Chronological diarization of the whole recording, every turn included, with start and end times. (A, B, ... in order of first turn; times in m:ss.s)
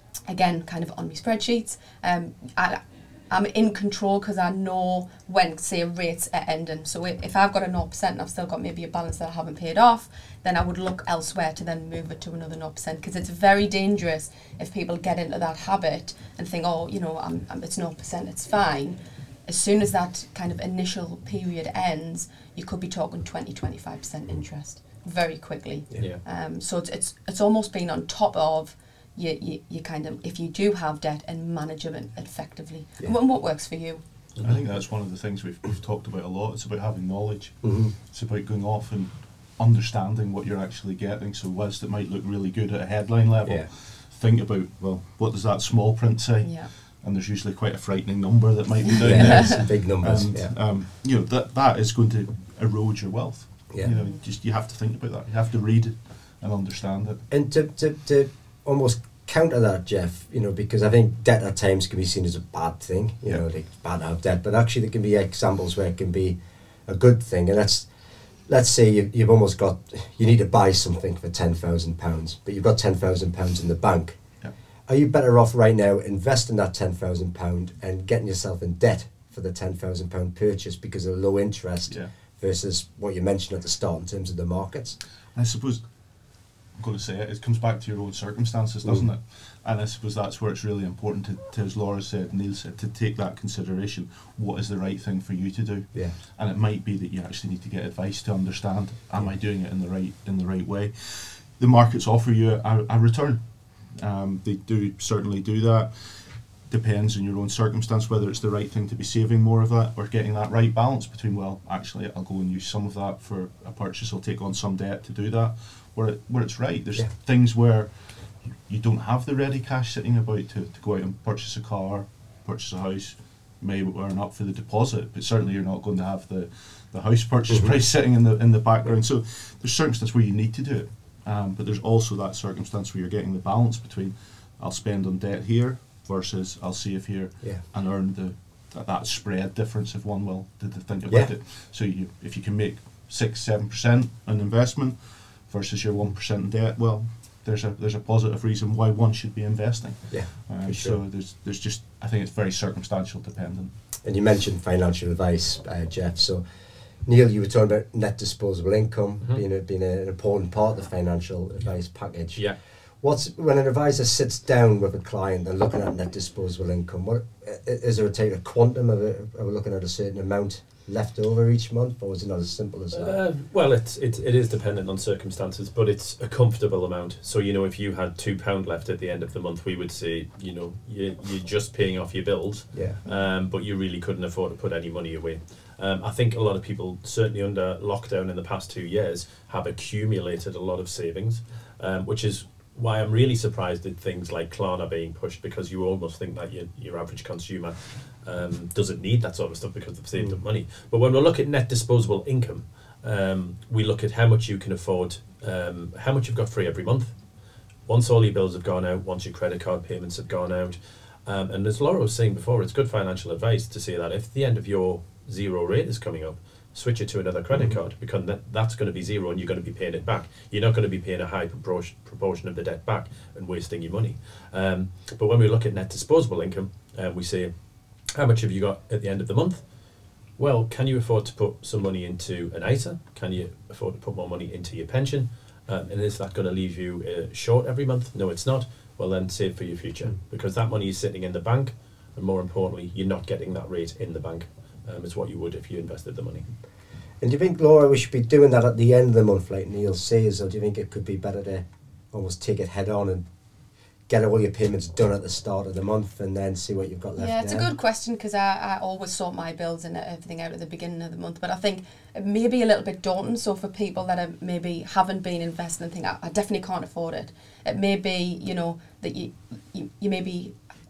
0:00.3-0:34.0 A
0:34.4-0:34.6 B
0:34.4-0:57.2 C
0:37.6-0:37.9 D
0:43.4-0:43.7 D
0:46.4-0:46.7 A
0:49.0-0:50.5 D
0:49.0-0:49.4 A
0:53.9-0:54.2 A
0:57.3-1:07.9 D
1:08.5-1:14.2 D
1:14.9-1:25.0 D
1:25.4-1:25.9 C
1:26.7-2:33.7 C
1:28.8-1:29.1 D
2:30.1-2:31.0 D
2:30.6-2:31.0 B
2:34.0-2:36.4 D
2:37.0-2:53.2 D
2:52.9-3:27.2 B
3:02.7-3:03.0 D
3:27.9-3:47.5 B
3:37.5-3:37.8 D
3:48.0-3:49.7 B
3:50.4-4:06.5 B
4:07.2-4:13.2 D
4:14.1-4:17.7 D
4:17.2-4:30.6 A